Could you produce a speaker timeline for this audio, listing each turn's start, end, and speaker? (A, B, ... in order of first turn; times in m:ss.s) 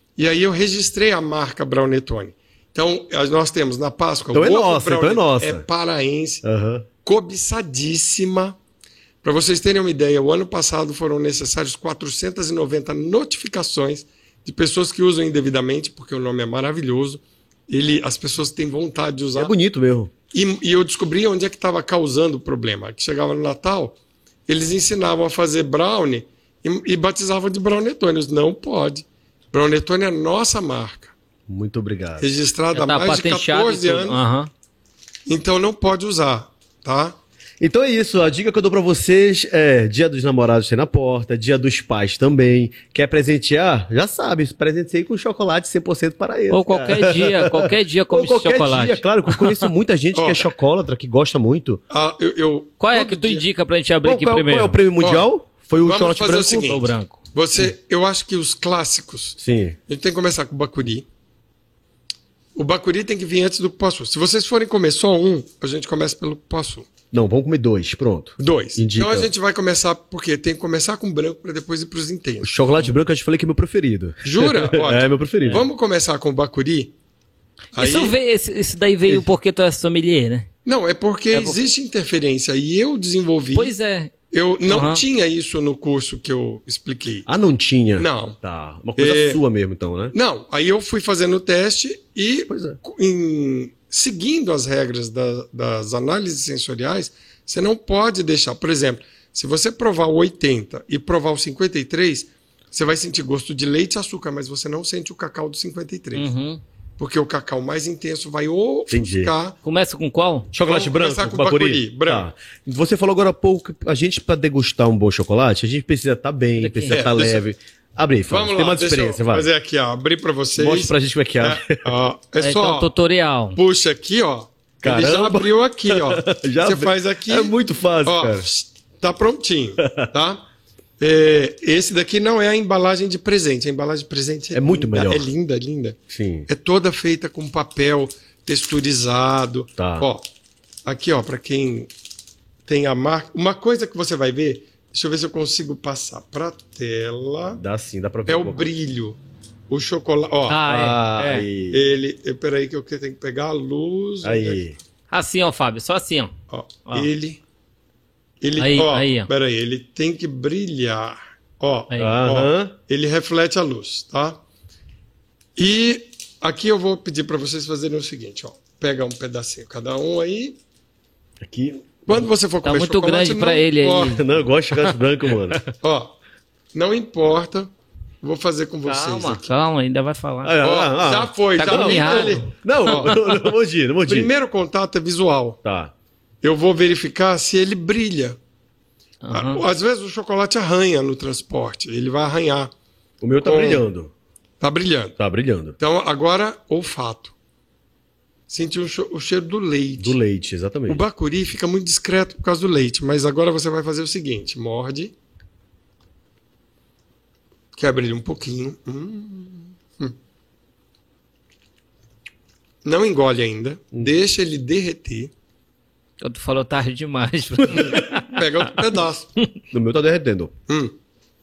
0:00.2-0:06.4 A
0:04.3-0:05.6 B
0:06.4-0:06.9 B
0:07.0-0:08.6 A
0:09.2-0:19.5 A
0:19.3-0:20.1 B
0:20.3-0:24.0 A
0:24.5-0:31.1 A
0:31.5-0:32.3 B
0:32.2-0:34.2 A
0:32.7-0:34.5 C
0:35.3-0:37.2 A
0:37.6-0:51.8 B
0:46.5-0:49.6 C
0:50.1-0:50.5 A
0:51.9-0:53.4 A
0:52.8-0:54.8 C
0:54.0-0:56.8 B
0:55.0-0:55.3 A
0:55.8-1:01.0 A
0:56.6-0:57.2 C
0:59.4-0:59.8 B
1:02.5-1:06.9 A
1:07.1-1:09.3 B
1:08.4-1:12.5 A
1:12.4-1:15.6 B
1:14.2-1:16.9 A
1:17.7-1:18.1 A
1:17.8-1:20.5 C
1:20.6-1:23.7 A
1:21.3-1:21.6 C
1:23.5-1:24.1 C
1:24.3-1:27.3 A
1:24.7-1:25.0 C
1:27.2-1:30.1 B
1:28.0-1:28.4 A
1:29.0-1:29.4 A
1:30.1-1:46.2 A
1:32.5-1:32.8 B
1:46.1-1:46.6 C
1:47.0-1:49.6 A
1:48.9-1:49.3 B
1:49.6-1:50.5 C
1:50.5-1:59.5 B
1:50.6-1:52.3 A
1:56.6-1:57.1 C
1:56.9-1:57.4 A
1:58.3-2:02.9 A
2:00.6-2:01.9 B
2:02.4-2:03.6 C
2:03.6-2:10.4 A
2:04.8-2:08.5 B
2:09.8-2:10.1 B
2:11.0-2:20.2 A
2:14.5-2:15.3 B
2:16.1-2:16.5 B
2:19.8-2:20.1 B
2:20.8-2:21.9 A
2:22.6-2:27.6 A
2:27.5-2:28.7 B
2:28.3-2:29.2 A
2:29.7-2:30.6 A
2:30.5-2:31.4 C
2:30.7-2:31.8 B
2:31.7-2:34.6 A
2:34.2-2:34.8 B
2:35.1-2:36.3 C
2:36.5-2:37.4 A
2:38.4-2:44.4 A
2:38.6-2:39.3 C
2:41.9-2:42.2 C
2:42.0-2:42.8 B
2:45.6-2:50.6 A
2:51.4-2:52.2 B
2:52.0-2:54.2 A
2:52.6-2:54.2 C
2:54.0-2:55.6 B
2:55.8-2:56.1 A
2:56.7-2:57.7 A
2:58.2-2:59.5 A
2:58.8-3:00.6 C
3:00.4-3:04.3 B
3:00.6-3:03.2 A
3:01.6-3:03.1 C
3:04.1-3:05.6 A
3:05.6-3:05.9 B
3:06.4-3:08.4 A
3:09.2-3:09.6 C
3:09.3-3:12.7 A
3:13.2-3:14.1 B
3:13.4-3:13.8 A
3:14.6-3:15.2 A
3:15.2-3:15.8 B
3:15.8-3:17.3 A
3:18.5-3:20.2 A
3:20.0-3:21.0 B
3:20.9-3:25.1 A
3:27.8-3:30.1 A
3:32.8-3:35.3 A
3:36.2-3:38.4 C
3:37.7-3:39.3 A
3:39.7-3:40.5 B
3:40.7-3:40.9 A